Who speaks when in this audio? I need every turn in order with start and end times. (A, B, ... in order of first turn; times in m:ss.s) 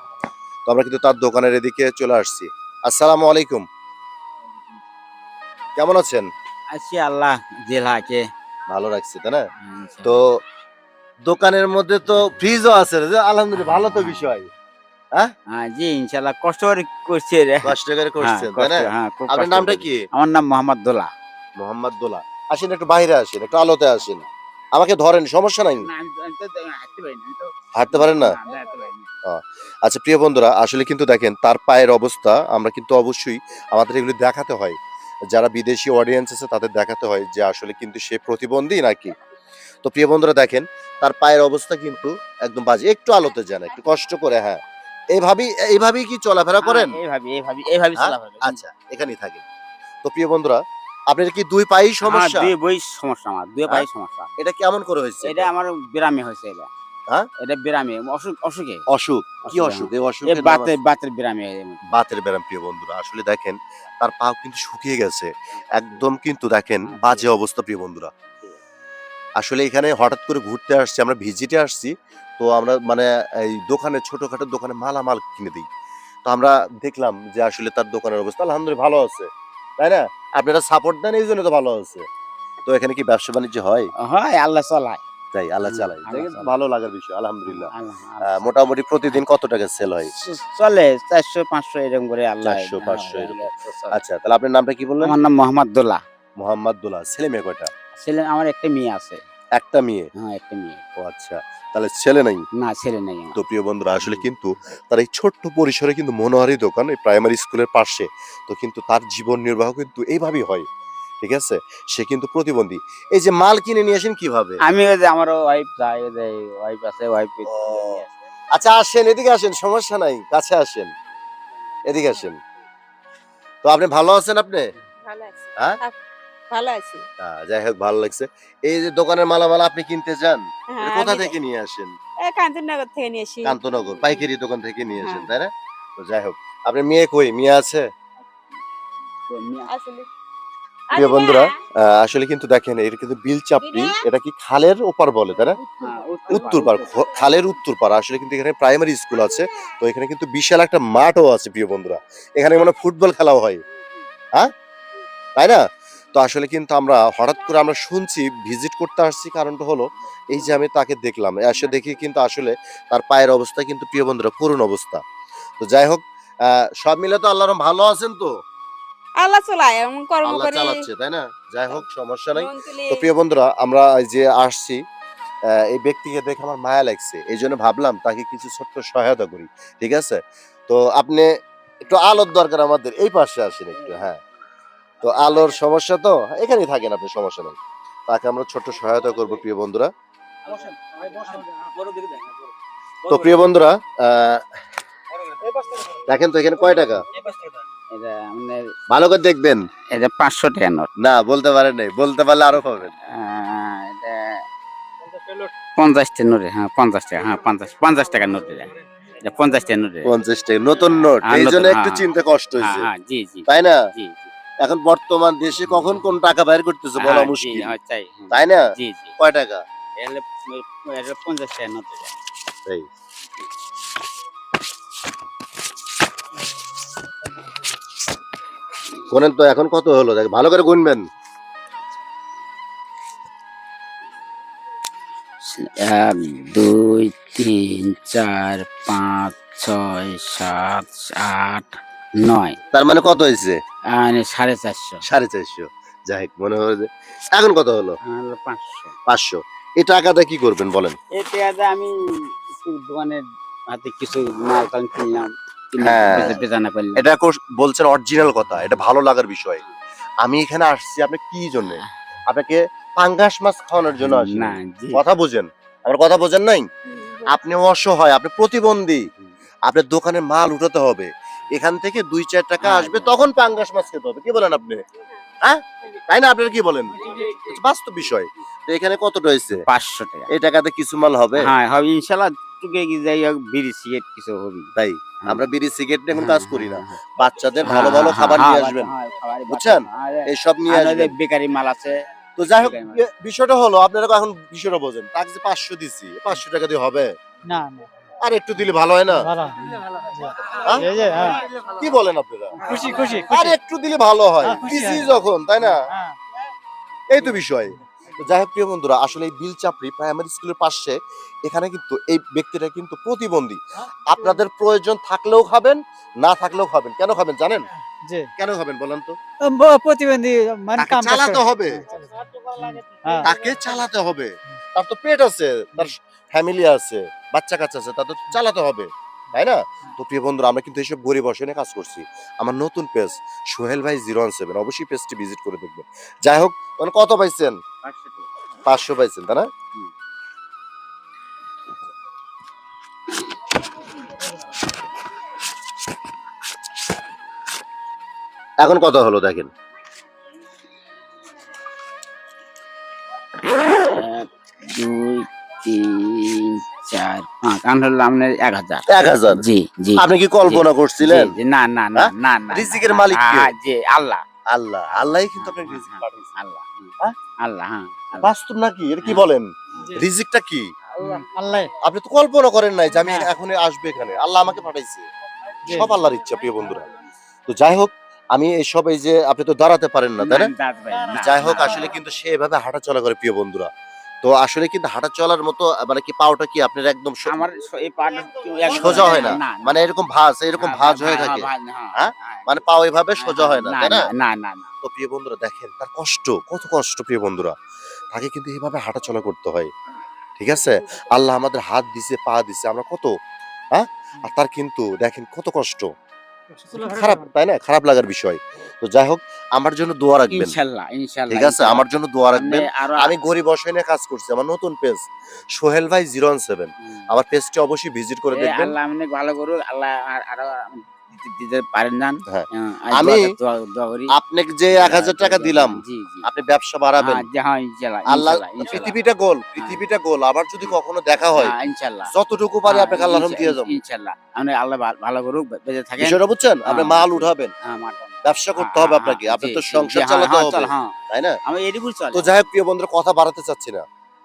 0:00.7-0:03.6 A
0:05.8-0:06.3 A
0:06.7-0:08.3 B
0:08.7-0:09.4 A
0:09.6-0:10.1 B
0:10.0-0:10.3 A
0:11.3-0:14.5 A
0:15.5-0:21.1 B
0:17.6-0:20.0 A
0:21.6-0:24.2 A
0:24.8-0:25.9 A
0:25.8-0:29.1 B
0:27.8-0:28.4 A
0:29.3-0:34.8 A
0:35.3-0:39.1 A
0:39.8-0:44.6 A
0:45.1-0:47.0 A
0:46.6-0:48.6 B
0:48.0-0:49.4 A
0:50.0-0:50.6 A
0:51.1-0:52.5 A
0:52.0-0:54.3 B
0:54.4-0:55.5 A
0:55.2-0:56.7 B
0:57.4-0:58.8 B
0:58.9-1:00.8 A
0:59.5-1:01.8 B
1:01.9-1:08.1 A
1:06.8-1:07.3 B
1:09.4-1:15.6 A
1:16.3-1:19.3 A
1:19.8-1:22.0 A
1:22.7-1:23.9 A
1:24.0-1:25.0 B
1:25.3-1:27.7 A
1:25.6-1:26.6 B
1:27.5-1:29.2 B
1:28.2-1:30.1 A
1:30.1-1:34.0 B
1:32.4-1:35.2 A
1:35.0-1:36.0 B
1:36.4-1:37.7 A
1:38.0-1:39.2 B
1:39.6-1:40.1 A
1:40.2-1:40.8 B
1:41.0-1:42.4 A
1:42.6-1:43.4 B
1:43.4-1:50.6 A
1:44.0-1:44.3 B
1:51.2-1:54.6 A
1:54.7-1:58.1 B
1:57.5-1:58.0 A
1:58.6-2:00.9 A
2:01.9-2:02.4 A
2:03.6-2:04.6 A
2:05.0-2:06.0 C
2:06.5-2:07.0 C
2:07.2-2:11.9 A
2:10.7-2:11.4 C
2:12.2-2:14.3 C
2:13.4-2:17.8 A
2:15.0-2:15.3 C
2:19.3-2:19.7 B
2:19.7-2:20.1 C
2:20.9-2:21.6 C
2:20.9-2:25.6 A
2:23.6-2:24.0 C
2:25.8-2:27.2 B
2:26.3-2:33.6 A
2:35.4-2:35.6 A
2:36.2-2:45.0 A
2:45.6-2:48.3 A
2:49.2-2:50.9 C
2:50.2-2:54.8 A
2:52.3-2:53.1 C
2:55.6-3:01.3 A
3:01.8-3:04.2 A
3:03.8-3:04.0 B
3:05.0-3:07.6 A
3:08.1-3:09.9 A
3:10.6-3:12.3 B
3:13.1-3:14.5 A
3:16.1-3:17.1 A
3:17.9-3:18.6 B
3:18.9-3:19.6 A
3:19.9-3:20.9 B
3:21.0-3:22.9 A
3:23.0-3:24.4 B
3:25.8-3:30.1 B
3:30.0-3:32.9 A
3:31.2-3:32.1 B
3:32.6-3:34.3 B
3:33.5-3:33.8 A
3:34.6-3:37.7 A
3:35.7-3:36.0 B
3:37.0-3:39.1 B
3:38.3-3:38.6 A
3:39.2-3:39.6 A
3:40.0-3:42.2 B
3:49.1-3:51.1 A
3:55.4-4:02.6 B
4:02.7-4:03.6 A
4:03.9-4:05.0 B
4:05.0-4:08.0 A
4:08.1-4:08.9 B
4:09.1-4:11.0 A
4:11.2-4:11.9 B
4:12.5-4:17.0 B
4:15.8-4:16.4 A
4:17.0-4:19.6 A
4:20.2-4:29.1 A
4:21.6-4:21.9 B
4:24.0-4:25.0 B
4:26.9-4:27.4 C
4:29.7-4:34.8 A
4:32.6-4:33.3 B
4:35.4-4:39.6 A
4:39.6-4:40.3 B
4:40.3-4:41.5 A
4:41.4-4:44.7 B
4:44.8-4:49.0 A
4:46.1-4:47.0 B
4:47.6-4:52.0 B
4:49.5-4:51.1 A
4:52.4-4:57.1 A
4:52.5-4:53.0 B
4:57.5-4:57.9 D
4:58.2-4:59.3 A
4:59.2-5:01.4 D
5:00.5-5:02.6 A
5:02.6-5:03.6 D
5:02.7-5:03.2 B
5:03.2-5:05.9 A
5:04.4-5:05.1 D
5:05.8-5:06.2 D
5:07.1-5:11.0 A
5:11.5-5:17.7 A
5:18.4-5:19.2 A
5:19.5-5:23.3 D
5:20.8-5:21.9 A
5:23.2-5:37.6 A
5:37.8-5:38.3 B
5:38.7-5:39.5 A
5:48.6-5:49.5 A
5:53.7-6:04.2 B
5:58.9-5:59.4 A
6:00.0-6:01.3 A
6:02.0-6:03.5 A
6:04.5-6:06.4 A
6:04.9-6:08.3 B
6:08.2-6:10.7 A
6:11.0-6:11.7 D
6:11.8-6:15.1 A
6:13.0-6:13.3 D
6:15.7-6:16.9 A
6:17.5-6:20.5 A
6:20.2-6:21.9 B
6:21.1-6:23.7 A
6:24.2-6:27.4 A
6:27.3-6:29.8 B
6:28.7-6:34.1 A
6:30.6-6:32.6 B
6:33.2-6:34.7 B
6:34.8-6:37.6 A
6:38.1-6:39.7 A
6:40.4-6:43.1 A
6:43.8-6:45.9 A
6:46.6-6:47.2 D
6:46.7-6:50.6 A
6:50.3-6:53.2 B
6:51.3-6:55.0 A
6:55.6-6:58.7 A
6:58.3-7:04.1 B
7:02.3-7:03.3 A
7:04.1-7:07.2 A
7:04.7-7:06.3 B
7:07.0-7:09.0 B
7:08.1-7:11.6 A
7:09.6-7:09.8 B
7:11.4-7:12.1 B
7:12.1-7:13.8 A
7:12.6-7:20.9 B
7:16.0-7:17.5 A
7:18.2-7:21.4 A
7:21.5-7:22.3 B
7:22.1-7:23.8 A